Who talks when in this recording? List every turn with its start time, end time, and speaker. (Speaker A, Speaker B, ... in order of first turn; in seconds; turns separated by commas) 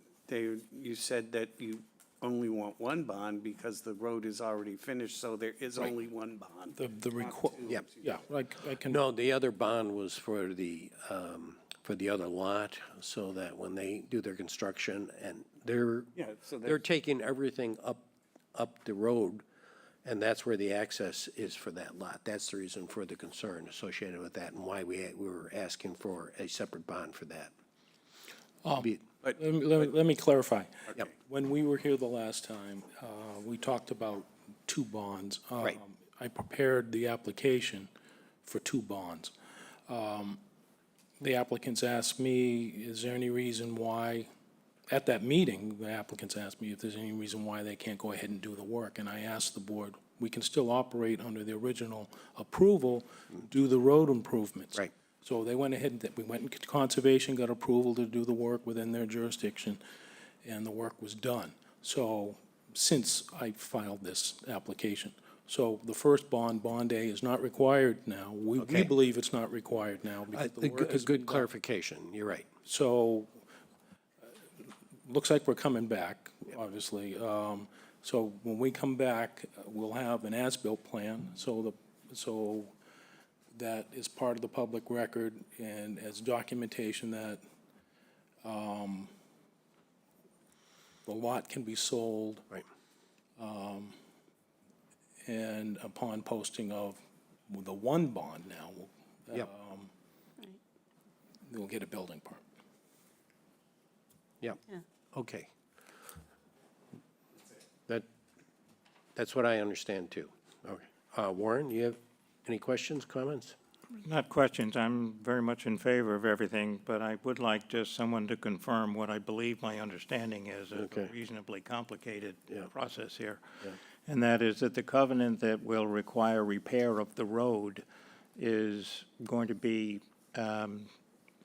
Speaker A: 0.3-8.2, Speaker B: 6.7-9.0, Speaker C: 8.8-19.4, Speaker A: 16.1-16.9, Speaker C: 20.0-27.5, Speaker B: 28.6-37.9, Speaker B: 38.4-39.3, Speaker B: 39.9-40.4, Speaker B: 41.2-44.3, Speaker B: 44.9-59.8, Speaker B: 60.4-71.5, Speaker C: 68.6-68.9, Speaker C: 70.3-72.5, Speaker B: 72.7-73.3, Speaker B: 75.0-82.7, Speaker B: 83.5-87.4, Speaker B: 88.4-89.1, Speaker B: 91.0-92.5, Speaker B: 93.4-94.0, Speaker B: 95.2-99.9, Speaker B: 101.5-102.5, Speaker C: 105.1-105.5, Speaker C: 109.2-113.5, Speaker D: 114.0-123.4, Speaker C: 120.7-121.1, Speaker D: 124.1-127.8, Speaker D: 128.3-130.9